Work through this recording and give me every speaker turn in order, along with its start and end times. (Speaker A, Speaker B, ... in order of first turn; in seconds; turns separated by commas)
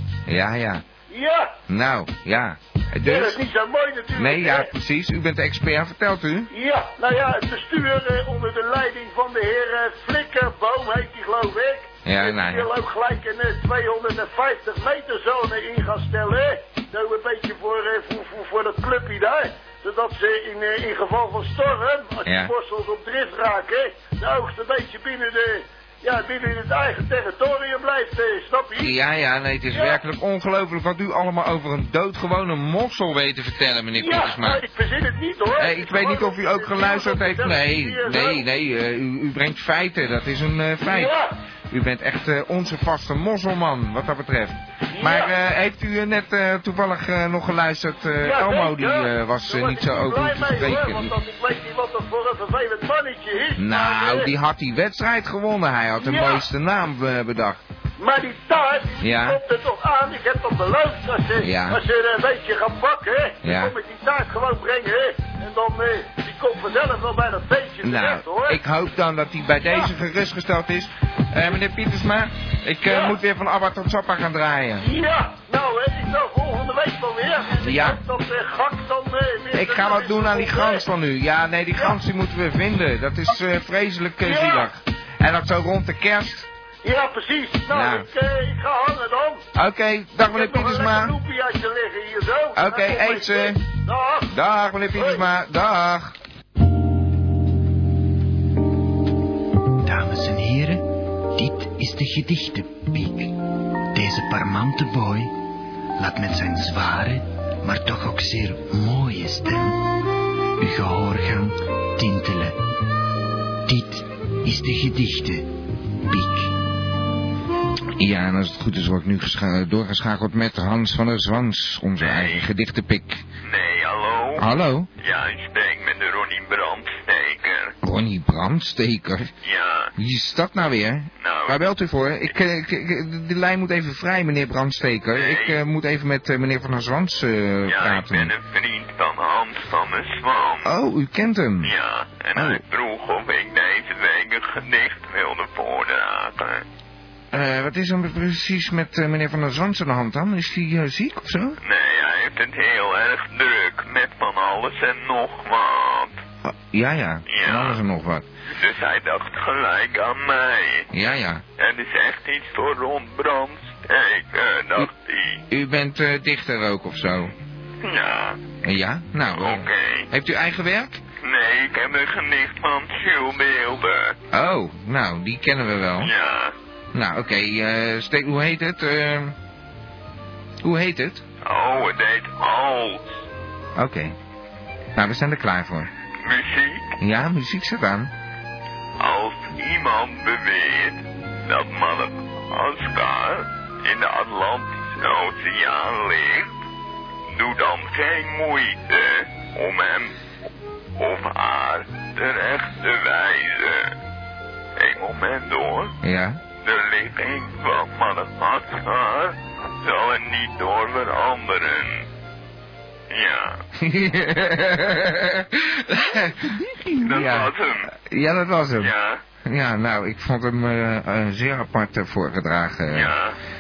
Speaker A: 0.3-0.8, Speaker B: 1.1-1.6, Speaker A: 1.7-3.4, Speaker B: 3.1-4.7, Speaker A: 4.2-6.5, Speaker B: 6.5-28.9, Speaker A: 12.1-12.7, Speaker A: 22.2-22.5, Speaker A: 28.8-34.6, Speaker B: 29.7-30.0, Speaker B: 34.0-38.4, Speaker A: 35.6-41.1, Speaker B: 40.9-41.3, Speaker A: 41.7-51.1, Speaker B: 44.9-45.3, Speaker B: 48.2-54.3, Speaker A: 53.6-57.6, Speaker B: 56.0-56.4, Speaker B: 58.0-68.6, Speaker A: 59.0-59.4, Speaker A: 61.4-61.8, Speaker A: 63.4-63.8, Speaker A: 67.8-74.8, Speaker B: 72.9-73.2, Speaker B: 74.8-80.8, Speaker A: 77.6-78.0, Speaker A: 79.5-86.5, Speaker B: 84.2-84.7, Speaker B: 86.8-89.4, Speaker A: 87.7-88.1, Speaker A: 89.5-91.1, Speaker B: 90.3-94.3, Speaker A: 92.6-93.6, Speaker A: 94.3-96.1, Speaker B: 95.0-95.2, Speaker C: 99.8-100.8, Speaker C: 101.3-103.3, Speaker C: 103.9-105.3, Speaker C: 106.0-109.8, Speaker C: 110.6-112.6, Speaker C: 113.7-115.5, Speaker C: 116.0-116.5, Speaker A: 118.0-123.2, Speaker D: 122.0-122.5, Speaker D: 123.4-124.5, Speaker A: 124.4-124.9, Speaker D: 125.0-127.7, Speaker A: 127.8-129.3, Speaker D: 129.4-129.9, Speaker A: 130.0-138.3, Speaker D: 131.2-131.6, Speaker D: 135.1-135.6, Speaker D: 137.7-140.7, Speaker A: 140.6-141.7, Speaker D: 141.6-146.6, Speaker A: 142.3-142.6, Speaker A: 147.3-151.6, Speaker D: 151.6-156.2, Speaker A: 156.4-158.3, Speaker D: 157.3-157.8, Speaker D: 158.5-160.9, Speaker A: 160.9-161.4, Speaker D: 161.6-165.4, Speaker A: 165.5-167.3, Speaker D: 167.8-168.4, Speaker A: 168.6-171.0, Speaker D: 169.3-170.1, Speaker D: 171.2-174.2, Speaker A: 174.3-176.1, Speaker D: 176.0-176.5, Speaker A: 176.9-179.3, Speaker A: 180.6-181.2, Speaker D: 181.4-183.2, Speaker A: 183.8-184.2, Speaker A: 185.0-185.9, Speaker D: 186.2-186.9, Speaker A: 187.0-188.1, Speaker D: 189.0-196.5, Speaker D: 197.3-200.1, Speaker D: 201.0-203.9, Speaker D: 204.8-205.9, Speaker A: 206.0-206.4, Speaker D: 206.6-212.1, Speaker D: 213.1-213.6, Speaker A: 213.8-218.9, Speaker D: 217.0-217.9, Speaker D: 218.8-219.2, Speaker A: 219.4-223.1, Speaker D: 222.9-223.3